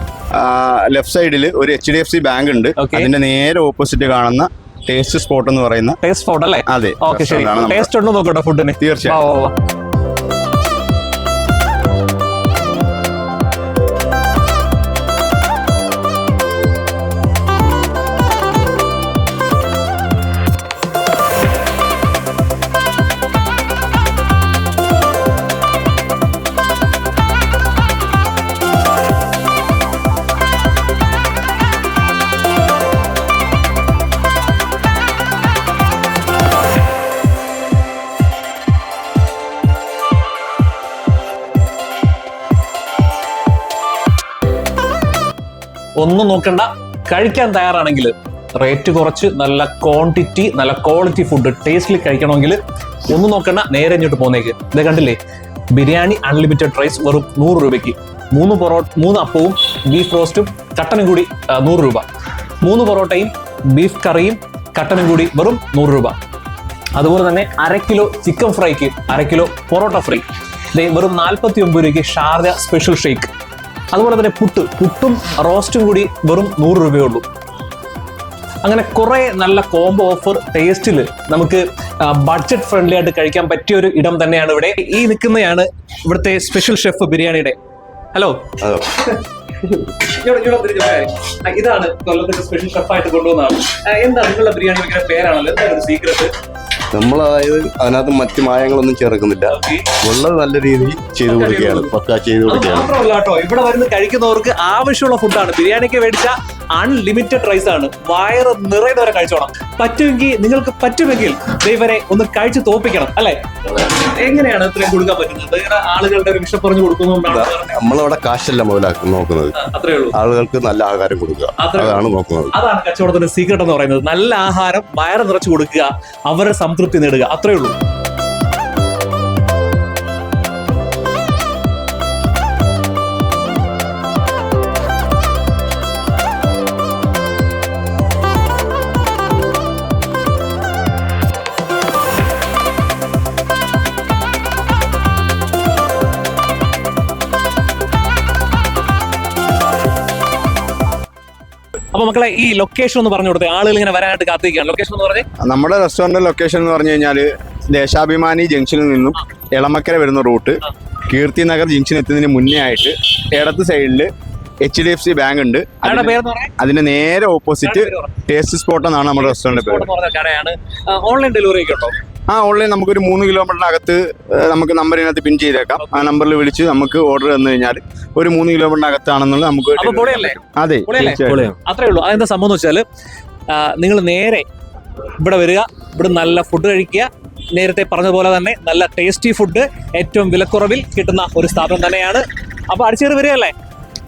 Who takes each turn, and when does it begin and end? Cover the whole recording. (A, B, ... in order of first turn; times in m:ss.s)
0:00.3-0:06.0 A
0:02.8-0:03.1 B
0:06.0-0:09.5 B
0:06.7-0:07.9 A
0:08.8-0:09.2 A
0:46.0-0:55.2 B
0:55.7-1:02.1 B
1:02.6-1:06.2 B
1:07.0-1:13.3 B
1:13.9-1:17.3 B
1:18.6-1:27.6 B
1:28.1-1:29.2 B
1:29.8-1:36.3 B
1:36.9-1:42.9 C
1:39.5-1:39.9 B
1:41.2-1:41.9 B
1:42.4-1:57.8 B
1:57.3-1:59.6 C
1:59.5-2:00.2 B
2:00.1-2:02.5 C
2:01.6-2:07.8 B
2:31.9-2:35.3 B
2:35.4-2:44.1 A
2:44.6-2:49.9 A
2:45.8-2:46.5 B
2:47.6-2:48.2 B
2:49.2-2:52.0 B
2:52.3-3:01.5 A
2:55.8-2:56.1 B
2:59.8-3:02.8 B
3:03.5-3:04.5 B
3:05.2-3:13.5 B